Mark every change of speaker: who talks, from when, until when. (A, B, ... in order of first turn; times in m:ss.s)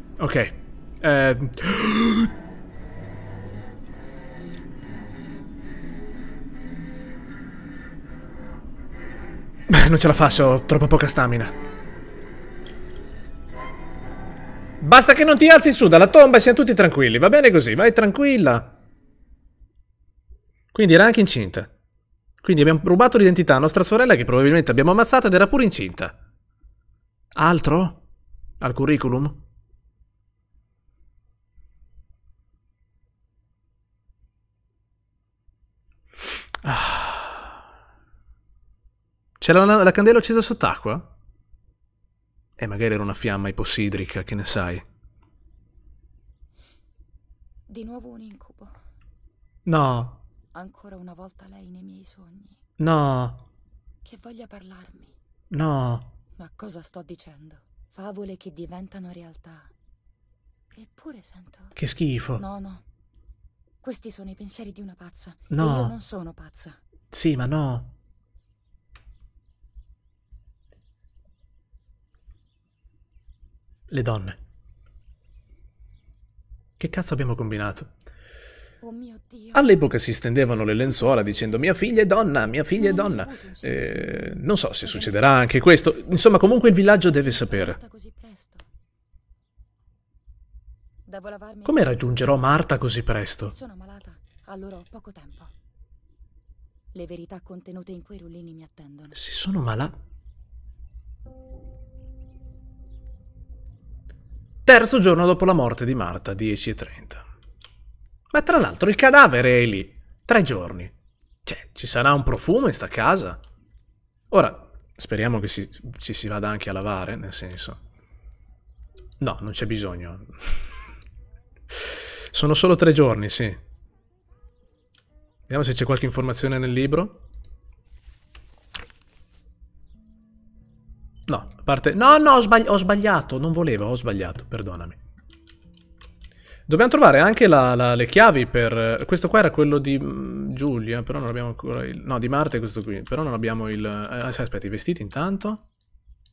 0:00.2-0:02.3 A
0:09.7-0:11.6 A
0:14.8-0:18.7 A
0:20.7-0:21.7 A
0:22.4-0:26.2 A
0:27.4-0:28.0 A
0:28.6-0:29.4 A
0:36.6-0:37.6 A
0:39.4-0:41.1 A
0:42.6-0:44.8 A
0:47.7-0:48.8 B
0:49.7-0:50.2 A
0:50.5-0:52.6 B
0:52.8-0:53.4 A
0:54.0-0:55.2 B
0:55.5-0:56.1 A
0:56.4-0:59.7 B
1:00.7-1:01.8 B
1:01.8-1:02.4 A
1:02.4-1:02.8 B
1:03.8-1:06.8 B
1:05.5-1:05.9 A
1:07.1-1:07.9 A
1:13.9-1:14.4 A
1:16.8-1:17.9 A
1:18.8-1:19.7 B
1:19.5-1:27.8 A
1:22.8-1:25.5 B
1:27.1-1:28.7 B
1:31.1-1:32.5 B
1:31.6-1:33.5 A
1:33.4-1:35.5 B
1:36.9-1:39.2 B
1:39.1-1:40.0 A
1:44.7-1:47.2 A
1:48.3-1:50.9 A
1:51.5-1:53.4 A
1:54.3-1:57.8 A
1:59.2-2:00.7 A
2:01.7-2:03.6 A
2:05.5-2:07.2 A
2:11.3-2:15.0 A
2:16.7-2:25.6 A